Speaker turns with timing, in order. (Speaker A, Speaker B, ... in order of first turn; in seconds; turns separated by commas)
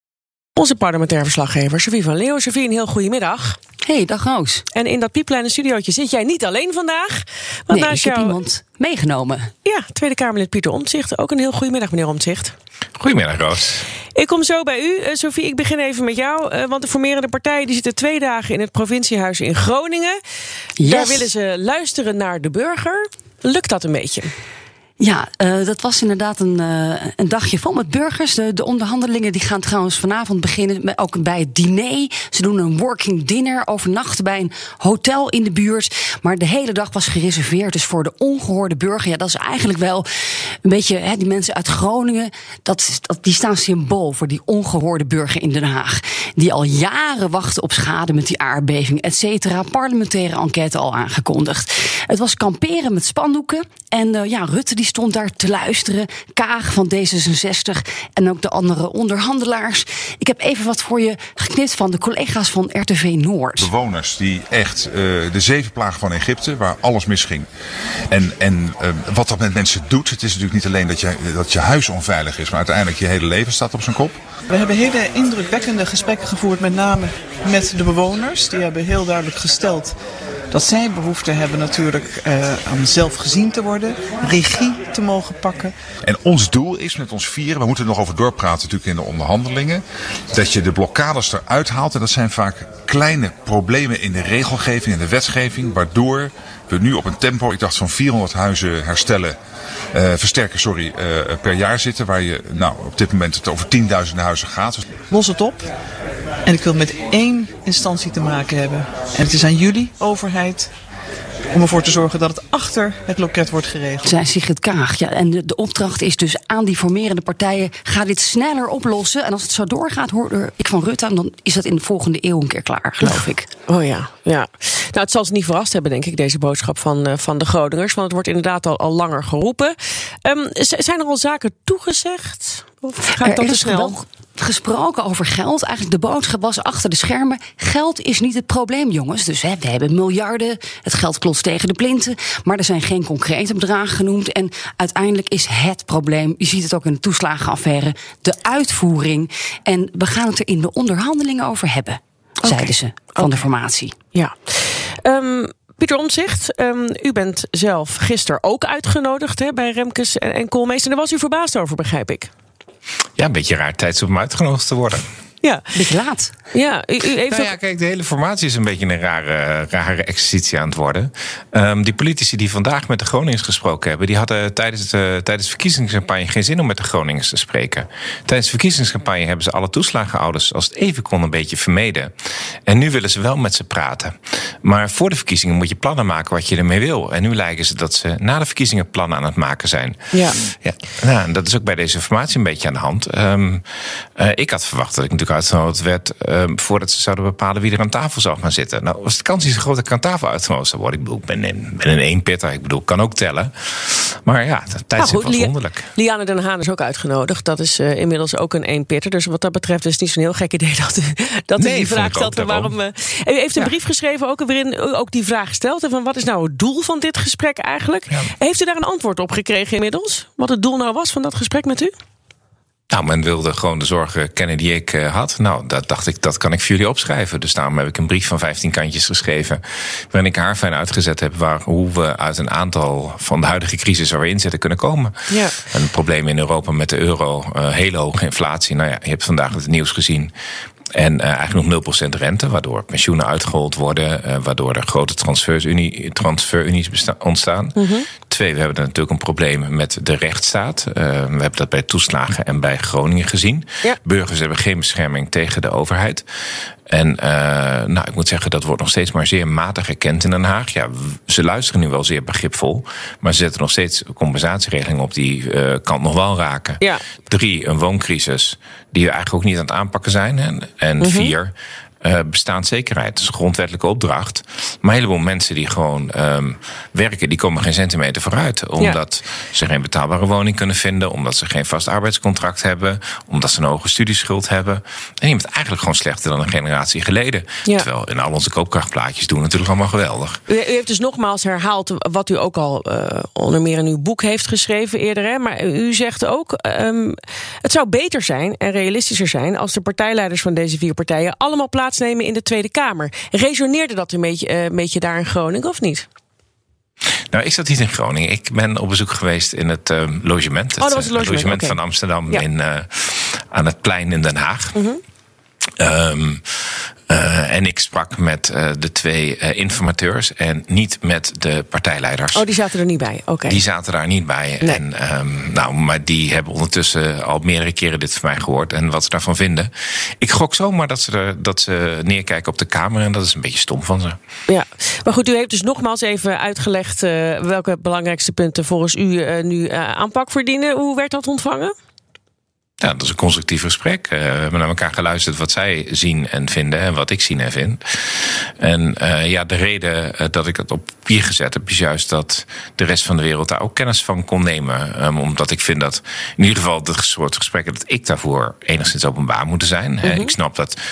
Speaker A: 0.6-3.6, Speaker B: 3.9-4.7, Speaker A: 4.7-8.4, Speaker B: 7.7-9.5, Speaker A: 9.7-12.5, Speaker C: 13.0-13.8, Speaker A: 14.2-20.2, Speaker B: 20.8-21.3, Speaker A: 20.8-24.3, Speaker B: 25.0-63.7, Speaker D: 63.6-67.5, Speaker D: 68.1-74.2, Speaker E: 74.5-80.0, Speaker E: 80.5-85.7, Speaker D: 86.0-89.8, Speaker D: 90.3-99.3, Speaker D: 100.0-104.8, Speaker E: 105.1-105.7, Speaker E: 106.5-110.7, Speaker E: 111.5-114.0, Speaker B: 114.0-123.5, Speaker A: 123.1-134.0, Speaker B: 133.2-153.9, Speaker A: 152.4-153.3, Speaker A: 154.1-162.3, Speaker C: 163.2-165.1, Speaker A: 165.4-165.8, Speaker B: 165.7-166.4, Speaker A: 166.5-167.6, Speaker C: 167.3-182.1, Speaker C: 182.7-205.9, Speaker A: 190.1-190.4, Speaker A: 205.0-221.9, Speaker C: 211.6-212.7, Speaker C: 222.9-240.3, Speaker A: 235.3-235.6, Speaker C: 240.9-256.2, Speaker A: 247.8-248.1, Speaker C: 256.9-290.4, Speaker A: 271.0-271.3, Speaker A: 290.5-306.1, Speaker C: 307.3-314.8, Speaker A: 310.8-312.4, Speaker A: 314.8-315.0, Speaker C: 315.8-322.5, Speaker A: 322.3-323.6, Speaker C: 323.4-334.2, Speaker A: 334.5-341.7, Speaker C: 342.8-360.8, Speaker A: 360.0-360.3